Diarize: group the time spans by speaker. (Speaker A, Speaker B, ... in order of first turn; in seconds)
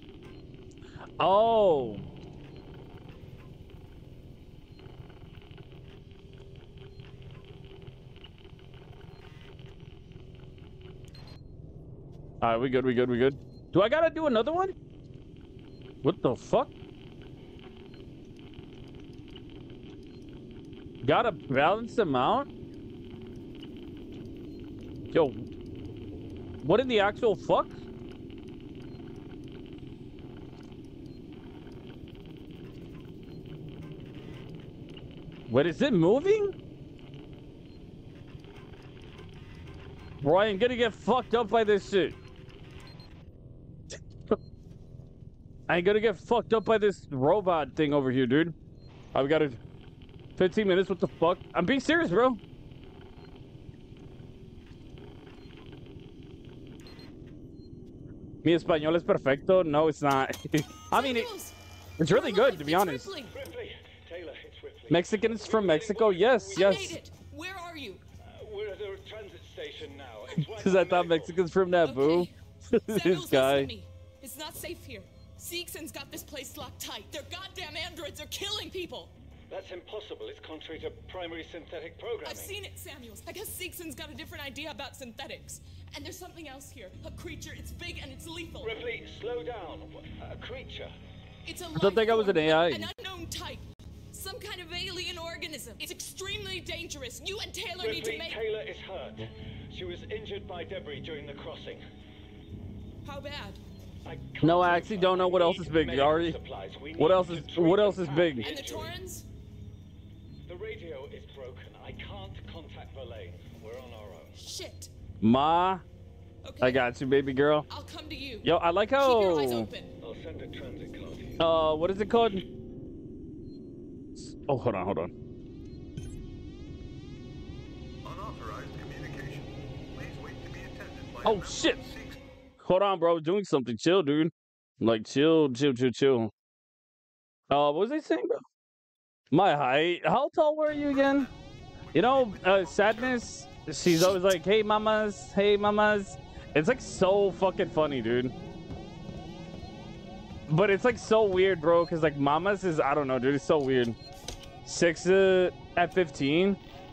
Speaker A: 1.2-2.0, 12.4-14.7, 16.0-16.7, 21.0-22.5, 25.1-25.5, 26.6-27.7, 35.5-36.5, 40.2-42.1, 45.7-48.5, 49.1-49.6, 50.4-52.4, 58.4-61.3, 62.0-63.1, 64.9-67.0, 70.4-73.7, 91.7-92.8, 104.4-106.4, 107.0-108.5, 115.2-115.8, 116.6-117.7, 118.4-119.7, 121.4-122.4, 124.2-125.1, 131.2-131.8, 132.6-136.3, 137.5-138.4, 139.3-141.3, 141.9-148.3, 150.5-154.0, 154.6-156.6
Speaker B: 60.9-63.3, 66.5-68.0, 71.8-72.3, 72.9-79.1, 82.2-88.8, 91.5-98.4, 103.0-103.6, 108.4-109.3, 114.3-114.9, 116.4-116.8, 117.7-119.9
Speaker C: 63.3-66.8, 68.3-71.4, 79.5-82.5, 88.6-90.9, 97.8-101.8, 104.0-108.9, 110.5-114.3, 120.0-121.4
Speaker D: 128.0-132.2, 140.9-141.3, 141.9-143.2